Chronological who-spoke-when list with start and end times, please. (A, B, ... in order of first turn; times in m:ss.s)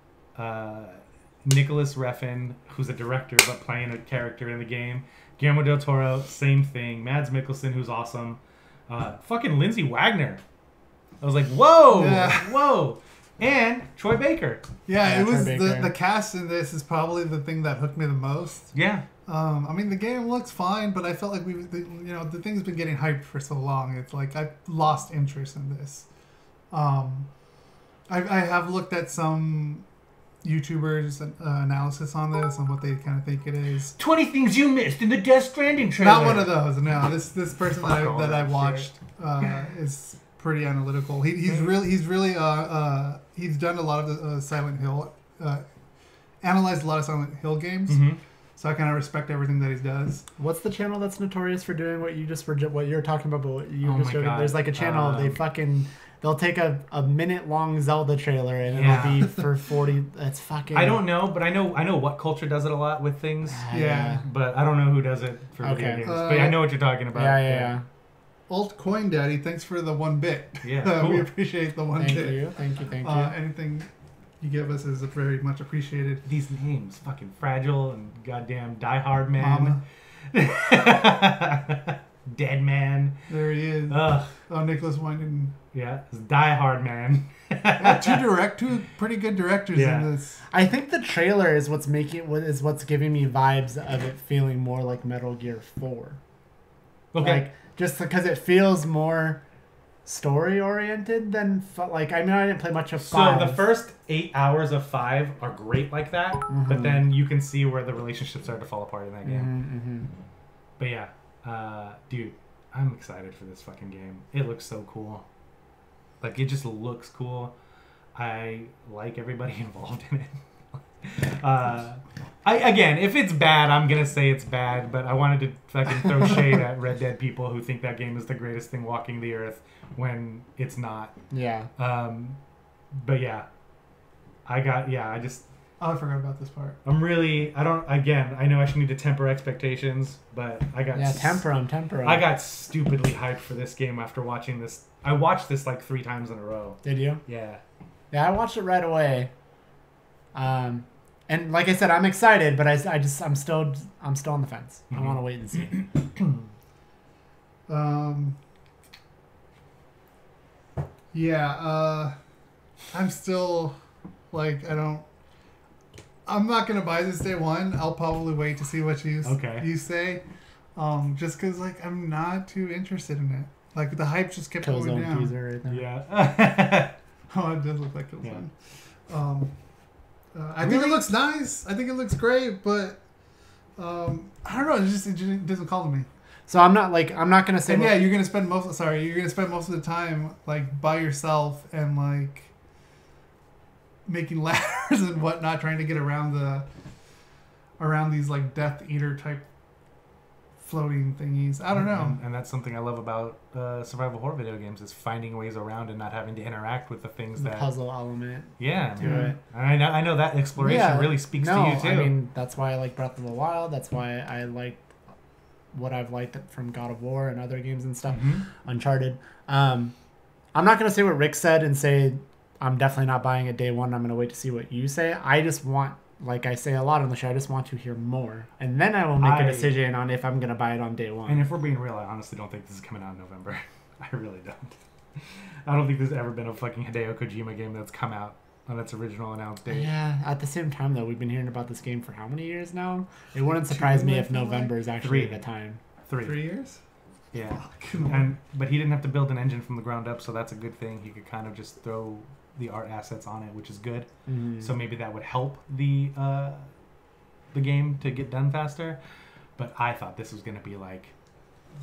0:00.3-0:10.4 A
0:11.2-0:14.6 A
0:11.9-0:12.6 B
0:14.9-0:18.7 B
0:15.0-0:15.9 C
0:18.7-0:19.0 A
0:19.2-0:26.1 B
0:26.7-0:27.3 B
0:28.1-0:29.8 B
0:30.4-0:33.9 B
0:34.0-0:36.6 A
0:36.0-0:45.6 B
0:37.8-0:38.9 A
0:46.4-0:48.0 B
0:47.9-0:48.2 A
0:48.6-0:50.2 B
0:50.4-1:01.0 C
0:53.8-0:55.4 A
0:58.7-0:59.2 A
1:00.7-1:07.8 A
1:03.5-1:04.2 C
1:03.7-1:04.2 B
1:05.6-1:06.1 C
1:06.0-1:06.6 B
1:07.1-1:07.8 C
1:08.5-1:13.9 B
1:10.6-1:11.3 A
1:12.0-1:13.4 C
1:14.4-1:16.2 B
1:16.2-1:19.8 A
1:19.4-1:19.8 B
1:20.3-1:23.2 A
1:23.3-1:25.5 B
1:23.9-1:24.4 A
1:25.7-1:28.2 A
1:27.8-1:30.4 B
1:29.7-1:30.1 A
1:30.5-1:36.2 C
1:37.1-1:37.4 A
1:37.2-1:39.4 C
1:40.0-1:43.6 C
1:43.0-1:49.5 A
1:46.5-1:47.0 C
1:49.2-1:50.1 C
1:50.8-1:55.2 A
1:56.2-1:57.5 A
1:58.1-2:00.4 A
2:01.0-2:11.1 A
2:11.3-2:11.7 C
2:11.8-2:12.4 A
2:12.9-2:13.4 A
2:14.4-2:15.4 A
2:15.8-2:16.8 B
2:16.8-2:21.5 A
2:20.9-2:22.3 C
2:22.0-2:27.6 A
2:26.8-2:27.2 C
2:28.1-2:29.3 C
2:30.3-2:35.8 C
2:34.9-2:35.2 A
2:35.7-2:36.4 A
2:37.7-2:38.4 B
2:41.1-2:42.1 B
2:42.9-2:43.7 B
2:44.3-2:45.0 B
2:46.2-2:50.2 B
2:49.2-2:49.7 A
2:50.8-2:55.3 B
2:54.6-2:55.8 C
2:55.7-2:57.0 A
2:57.3-2:58.5 B
2:59.1-2:59.5 B
3:00.3-3:03.0 B
3:00.6-3:01.0 C
3:03.8-3:06.1 B
3:06.5-3:08.0 C
3:07.7-3:12.5 B
3:14.0-3:16.7 B
3:17.8-3:19.4 B
3:20.6-3:22.2 B
3:21.7-3:27.7 A
3:27.4-3:29.4 C
3:28.6-3:32.1 A
3:30.6-3:34.8 C
3:35.7-3:39.9 C
3:38.1-3:38.4 A
3:40.5-3:51.4 C
3:49.2-3:49.8 A
3:51.3-3:59.9 A
3:59.7-4:05.8 C
4:03.6-4:04.7 B
4:05.0-4:05.4 A
4:06.0-4:06.4 A
4:06.2-4:06.8 B
4:07.3-4:16.7 A
4:07.4-4:08.3 B
4:14.2-4:14.8 C
4:17.5-4:19.0 A
4:19.6-4:21.1 A